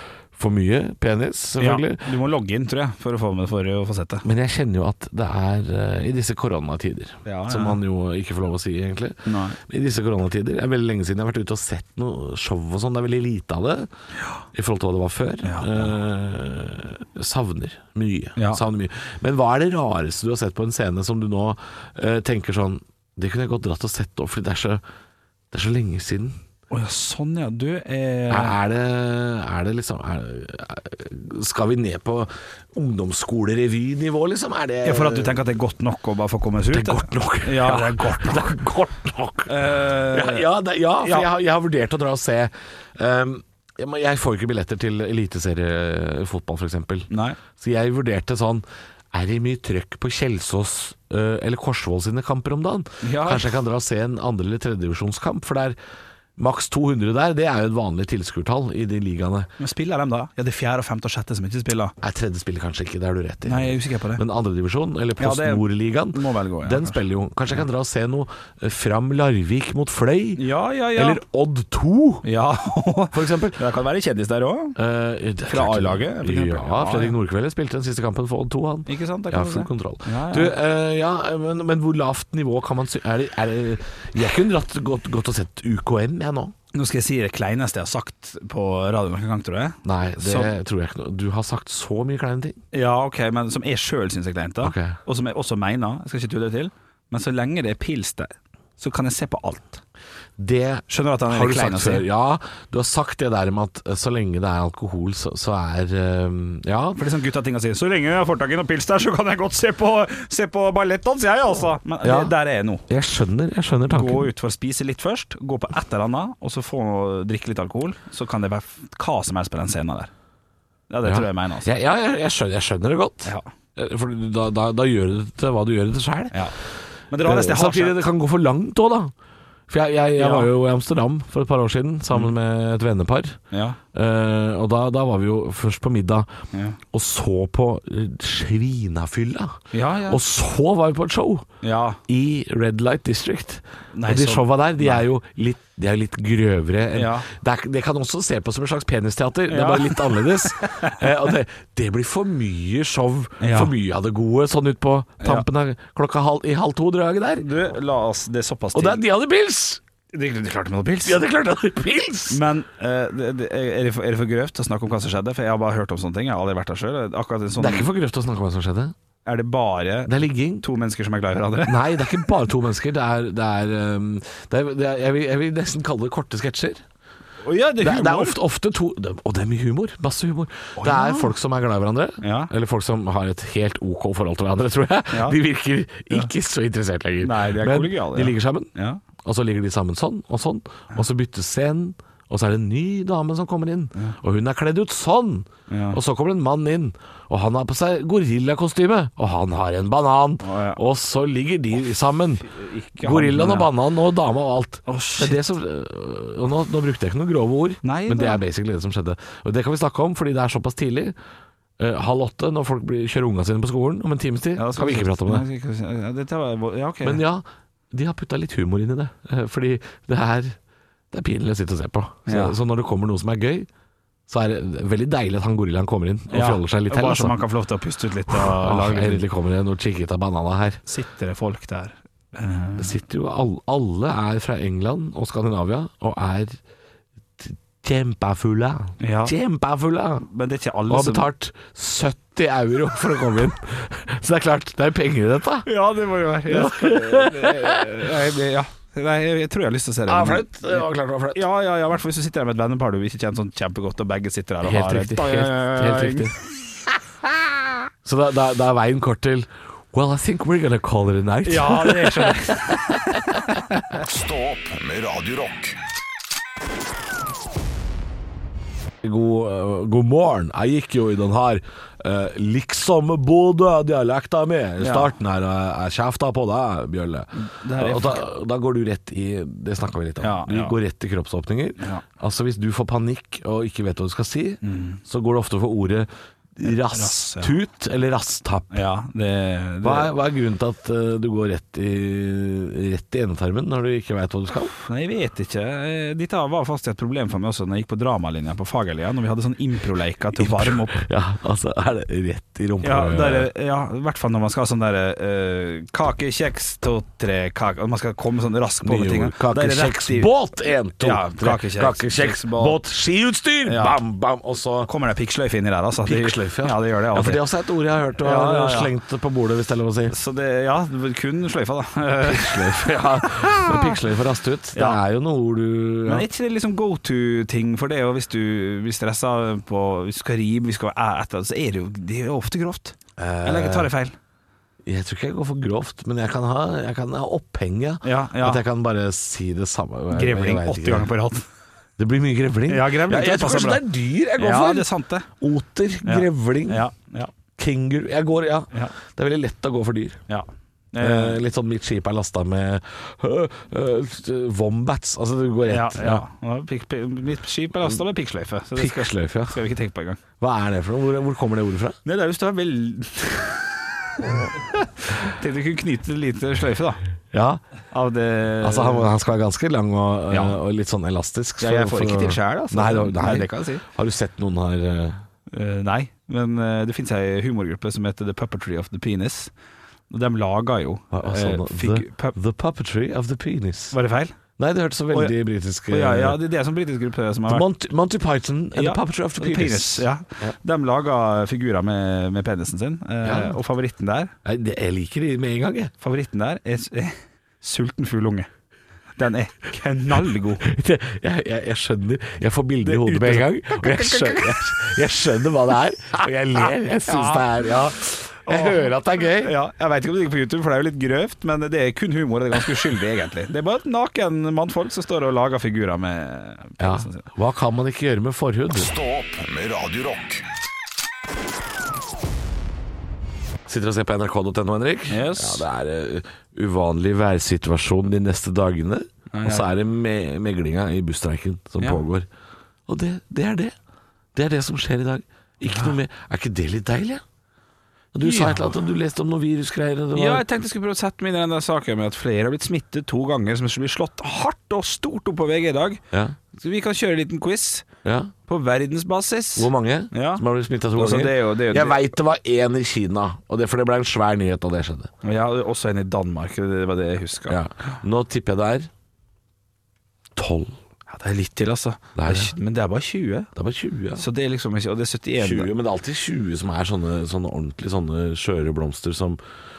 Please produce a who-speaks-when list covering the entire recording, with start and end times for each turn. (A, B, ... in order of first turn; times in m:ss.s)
0:00.3-0:02.1 A
0:01.6-0:04.2 B
0:04.2-0:13.9 A
0:07.2-0:07.8 B
0:09.2-0:09.6 B
0:14.5-0:24.8 A
0:15.4-0:15.9 B
0:18.4-0:18.6 B
0:25.5-0:26.4 A
0:26.7-0:28.6 B
0:28.3-0:35.4 A
0:34.8-0:38.6 B
0:36.7-0:39.5 A
0:39.5-0:40.5 B
0:40.1-0:55.8 A
0:41.0-0:41.3 B
0:47.1-0:47.4 B
0:53.0-0:53.5 B
0:56.4-0:59.5 A
0:59.6-1:01.9 B
1:02.0-1:12.2 A
1:03.4-1:04.2 B
1:05.2-1:07.0 B
1:10.4-1:11.2 B
1:12.2-1:14.8 B
1:13.1-1:13.6 A
1:14.8-1:26.5 A
1:15.5-1:17.2 B
1:18.8-1:20.6 B
1:26.7-1:30.5 B
1:29.8-1:32.6 A
1:32.7-1:39.8 B
1:34.6-1:35.0 A
1:40.4-1:47.0 A
1:40.9-1:42.0 B
1:47.0-1:52.8 B
1:52.0-1:52.3 A
1:52.9-1:54.3 A
1:53.9-2:00.1 B
2:00.9-2:01.7 B
2:01.0-2:06.4 A
2:07.1-2:08.0 B
2:07.2-2:09.1 A
2:09.7-2:13.4 A
2:10.2-2:10.5 B
2:13.5-2:13.8 B
2:13.9-2:16.3 A
2:16.5-2:16.8 B
2:16.9-2:21.4 A
2:19.7-2:20.2 B
2:21.6-2:22.0 B
2:22.1-2:37.5 A
2:23.9-2:25.0 B
2:26.9-2:27.3 B
2:29.5-2:31.1 B
2:33.4-2:33.7 B
2:35.2-2:35.4 B
2:37.4-2:39.0 B
2:38.7-2:39.8 A
2:40.1-2:41.2 B
2:41.0-2:42.4 A
2:42.3-2:47.9 B
2:47.6-2:48.9 A
2:49.2-2:52.1 B
2:50.0-2:50.6 A
2:51.6-2:56.8 A
2:57.4-2:58.4 B
2:57.8-3:08.7 A
3:00.8-3:01.3 B
3:02.2-3:02.5 B
3:05.1-3:05.4 B
3:07.2-3:09.0 B
3:09.2-3:31.1 A
3:15.7-3:16.0 B
3:20.4-3:20.8 B
3:22.5-3:23.7 B
3:24.9-3:25.4 B
3:27.8-3:28.4 B
3:31.8-3:35.4 A
3:34.6-3:37.2 B
3:37.0-3:40.6 A
3:41.1-3:43.7 A
3:42.3-3:42.6 B
3:44.3-3:47.4 A
3:46.3-3:49.2 B
3:48.3-3:50.8 A
3:50.8-3:52.9 B
3:52.8-3:56.6 A
3:57.4-4:00.2 A
3:59.0-3:59.3 B
4:00.2-4:01.3 B
4:00.9-4:05.7 A
4:05.6-4:16.3 B
4:06.5-4:08.0 A
4:10.1-4:11.5 A
4:14.6-4:16.3 A
4:18.0-4:23.4 A
4:21.4-4:23.8 B
4:23.9-4:25.8 C
4:29.0-4:48.8 A
4:34.8-4:35.1 B
4:37.3-4:38.2 B
4:40.2-4:40.8 B
4:44.6-4:45.0 B
4:46.6-4:47.5 B
4:48.7-4:50.1 B
4:49.8-4:54.7 A
4:54.7-5:01.0 B
5:00.4-5:03.5 A
5:02.8-5:10.3 B
5:08.8-5:14.9 A
5:11.0-5:12.8 B
5:13.6-5:14.0 B
5:14.8-5:17.4 B
5:16.0-5:20.1 A
5:18.2-5:18.9 B
5:20.1-5:23.9 B
5:22.2-5:26.3 A
5:24.7-5:25.0 B
5:26.0-5:34.2 B
5:33.2-5:33.9 A
5:34.8-5:41.1 A
5:38.0-5:38.6 B
5:40.1-5:41.4 B
5:42.0-5:46.8 A
5:42.7-5:45.3 B
5:46.0-5:47.3 B
5:47.6-5:50.2 A
5:50.3-5:51.4 B
5:51.0-5:56.2 A
5:55.7-6:00.2 B
5:58.8-5:59.6 A
6:00.4-6:02.0 A
6:02.0-6:07.0 B
6:07.3-6:07.6 A
6:07.9-6:09.1 B
6:08.6-6:15.2 A
6:10.3-6:10.6 B
6:11.6-6:13.8 B
6:15.5-6:19.5 B
6:20.1-6:22.4 B
6:21.1-6:24.0 A
6:23.9-6:24.4 B
6:24.6-6:26.4 A
6:25.9-6:27.7 B
6:27.5-6:30.5 A
6:28.8-6:34.3 B
6:33.2-6:33.6 A
6:34.4-6:35.9 A
6:36.0-6:38.5 B
6:39.2-6:40.7 B
6:40.6-6:49.5 A
6:42.8-6:44.9 B
6:47.0-6:47.5 B
6:48.4-6:57.2 B
6:56.8-6:58.9 A
6:58.7-7:00.4 C
7:03.6-7:12.3 A
7:05.1-7:05.6 B
7:09.3-7:09.7 B
7:12.9-7:13.7 A
7:14.3-7:17.2 A
7:18.1-7:20.4 A
7:18.2-7:18.7 B
7:20.1-7:26.0 B
7:26.5-7:27.9 B
7:28.0-7:28.3 A
7:28.5-7:30.4 B
7:29.6-7:35.1 A
7:30.9-7:32.0 B
7:35.2-7:37.6 B
7:37.5-7:38.9 A
7:40.4-7:40.8 A
7:41.1-7:43.5 B
7:42.2-7:42.5 A
7:43.6-7:44.2 A
7:44.2-7:45.7 B
7:45.4-7:49.4 A